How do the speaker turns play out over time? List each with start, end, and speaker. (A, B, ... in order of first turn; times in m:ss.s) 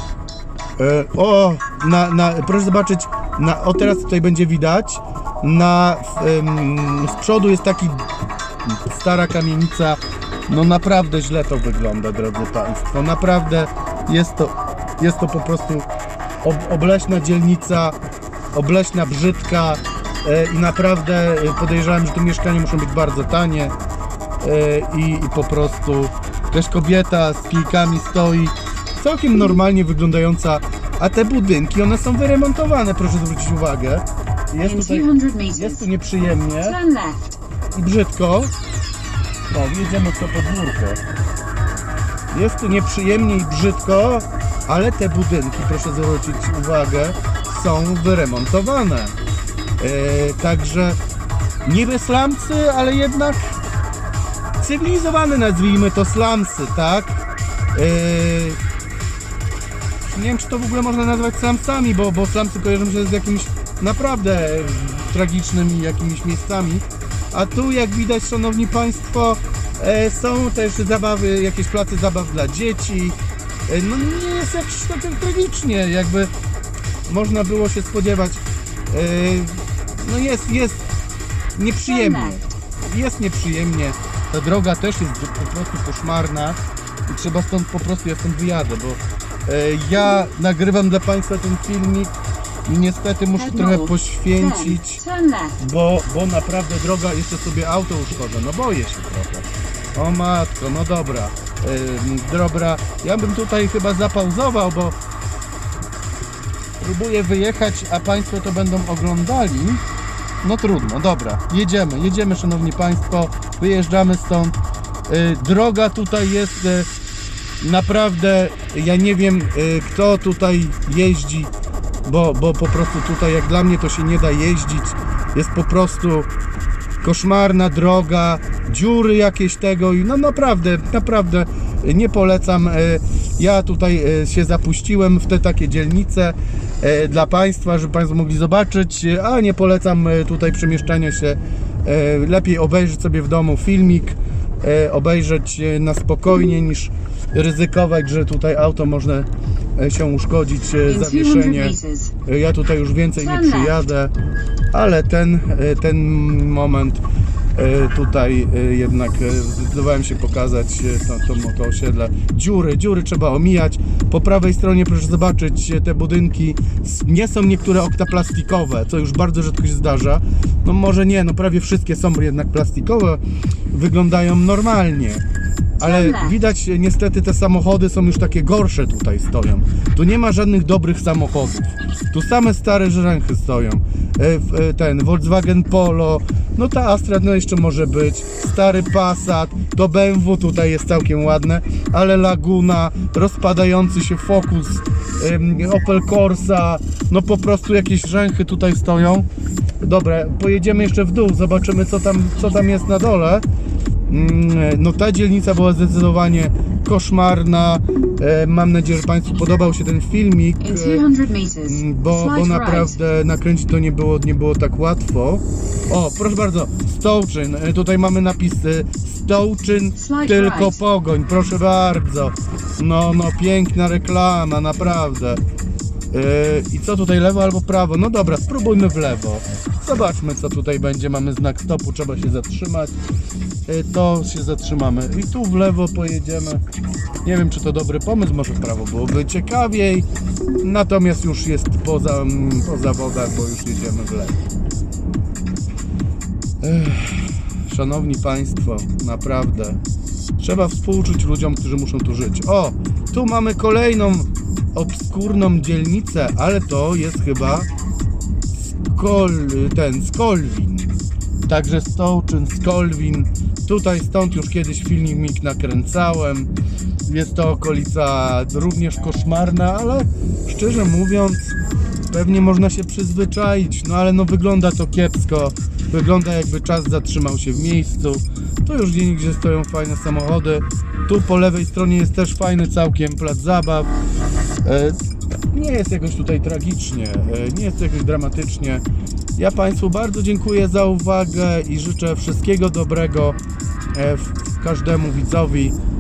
0:00.8-0:08.1 A
0:08.6-0:15.9 A
0:16.4-0:18.0 A
0:18.5-0:23.7 A
0:24.4-0:36.8 A
0:34.6-0:35.8 B
0:36.7-0:37.2 B
0:37.7-0:38.5 A
0:39.5-0:41.0 A
0:42.3-0:49.2 A
0:49.8-0:51.0 A
0:51.6-0:53.6 A
0:54.6-0:58.6 A
1:00.0-1:13.2 A
1:13.7-1:16.3 A
1:17.1-1:20.9 A
1:21.6-1:32.2 A
1:21.9-1:22.4 B
1:32.7-1:35.0 A
1:33.4-1:35.6 B
1:35.6-1:45.0 A
1:46.8-1:49.8 A
1:50.4-1:56.9 A
1:57.6-2:01.5 A
2:02.0-2:06.3 A
2:07.0-2:34.1 A
2:30.8-2:32.1 B
2:33.2-2:33.8 B
2:34.7-2:37.0 A
2:37.6-2:55.2 A
2:55.8-3:19.3 A
2:55.8-2:56.3 B
3:19.8-3:23.4 A
3:24.1-3:31.1 A
3:30.6-3:33.0 B
3:31.6-3:45.4 A
3:40.0-3:40.8 B
3:46.1-3:53.0 A
3:53.7-3:56.6 A
3:57.2-4:00.1 A
4:00.6-4:04.4 A
4:06.6-4:09.8 A
4:10.4-4:17.7 A
4:18.9-4:21.0 A
4:21.5-4:26.5 A
4:27.1-4:31.6 A
4:32.1-4:43.9 A
4:44.6-4:45.0 A
4:45.5-4:48.8 A
4:49.4-4:53.4 A
4:53.9-4:55.8 A